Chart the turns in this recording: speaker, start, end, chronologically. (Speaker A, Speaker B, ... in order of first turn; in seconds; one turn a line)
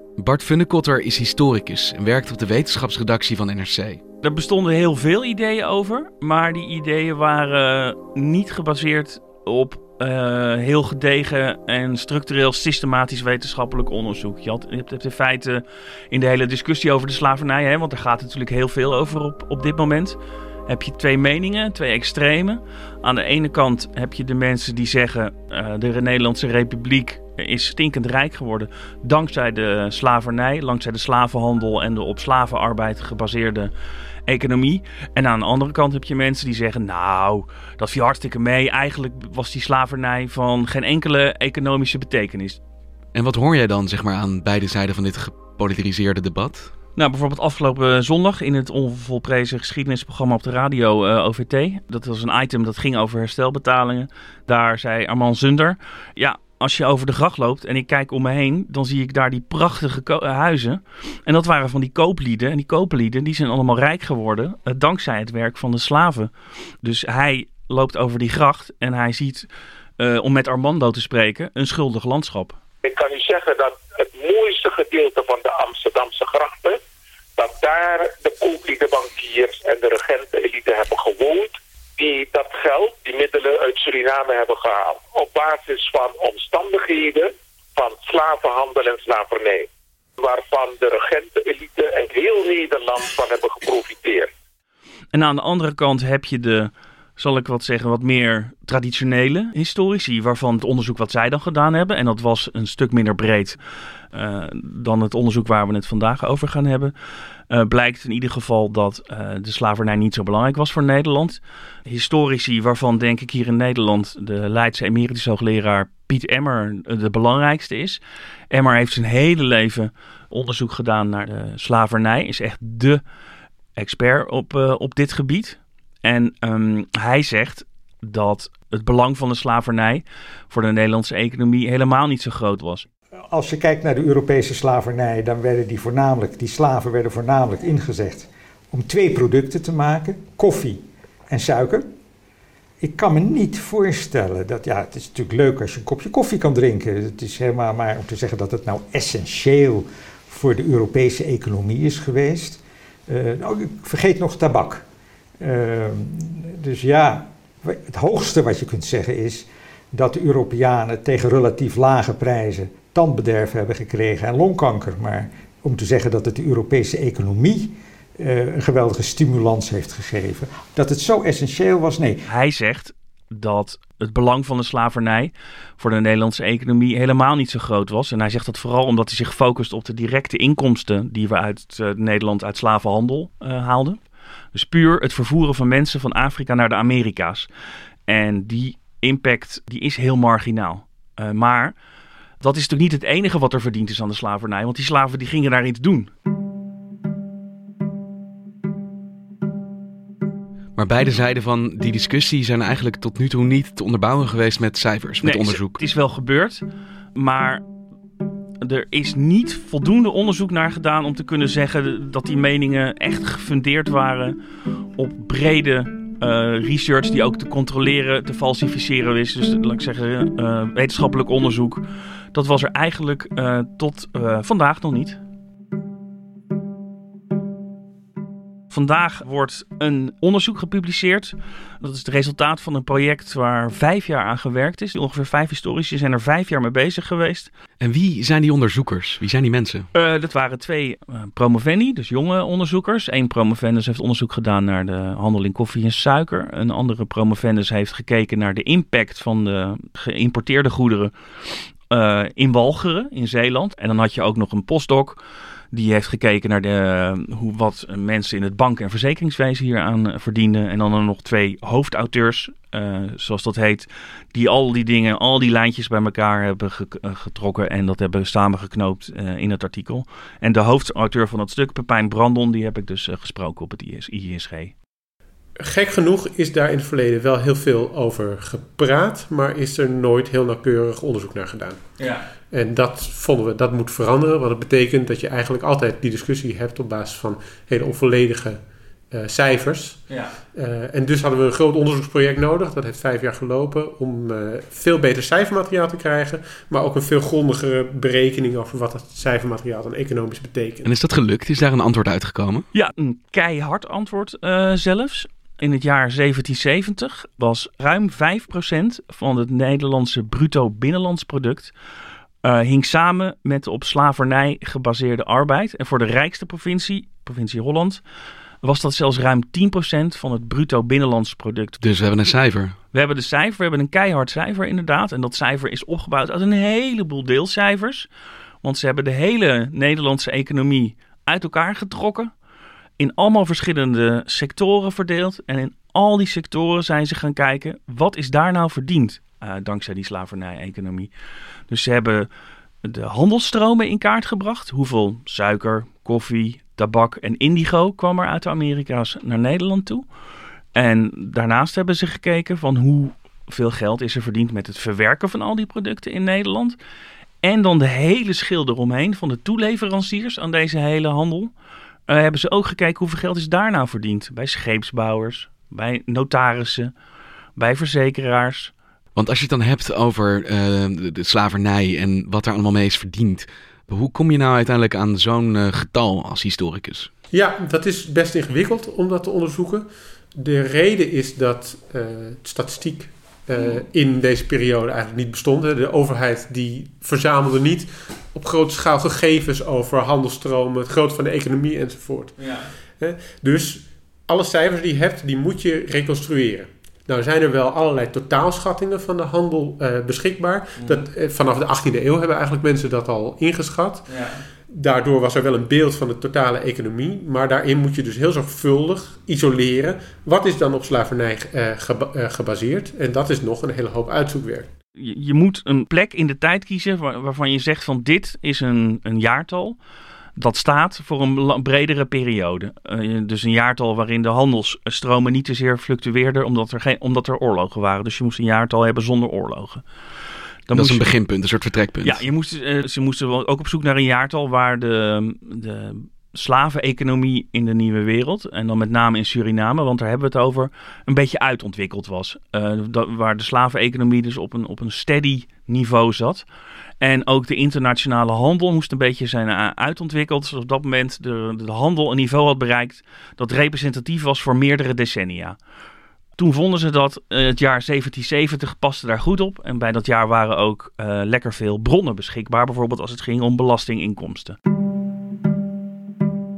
Speaker A: 0.2-4.0
Speaker B: 4.2-33.7
Speaker B: 34.3-42.6
Speaker A: 43.1-46.7
Speaker B: 47.0-69.5
Speaker B: 70.0-72.6
Speaker C: 72.8-76.8
Speaker C: 77.4-94.3
Speaker B: 95.1-103.6
Speaker B: 104.1-106.9
Speaker B: 107.5-123.0
Speaker B: 123.8-132.8
Speaker D: 133.3-141.8
Speaker D: 142.8-154.8
Speaker D: 155.4-172.2
Speaker B: 172.3-184.0
Speaker B: 184.5-187.5
Speaker B: 188.1-191.8
Speaker B: 192.4-196.1
Speaker A: 200.8-205.8
Speaker B: 205.2-207.6
Speaker B: 208.6-214.4
Speaker B: 214.9-225.2
Speaker B: 228.7-237.5
Speaker A: 237.8-239.9
Speaker B: 239.9-255.2
Speaker B: 255.7-274.7
Speaker E: 275.6-281.8
Speaker B: 282.0-282.3
Speaker E: 282.5-288.6
Speaker E: 289.1-300.9
Speaker B: 290.1-290.3
Speaker A: 300.8-302.7
Speaker B: 302.7-311.7
Speaker B: 312.4-318.0
Speaker B: 318.6-321.8
Speaker A: 321.8-322.8
Speaker B: 322.9-328.1
Speaker B: 328.6-332.3
Speaker B: 333.0-341.1
Speaker B: 341.7-342.3
Speaker B: 342.8-350.0
Speaker B: 350.7-356.8
Speaker B: 357.4-361.5
Speaker B: 362.1-366.9
Speaker B: 367.6-368.7
Speaker A: 369.1-377.1
Speaker E: 377.3-404.1
Speaker B: 392.4-392.7
Speaker B: 400.8-401.0
Speaker B: 404.1-404.4
Speaker E: 404.7-414.7
Speaker B: 415.0-419.8
Speaker B: 420.4-429.8
Speaker B: 430.7-431.1
Speaker A: 430.7-432.2
Speaker B: 432.0-446.4
Speaker B: 447.0-455.6
Speaker B: 456.4-464.6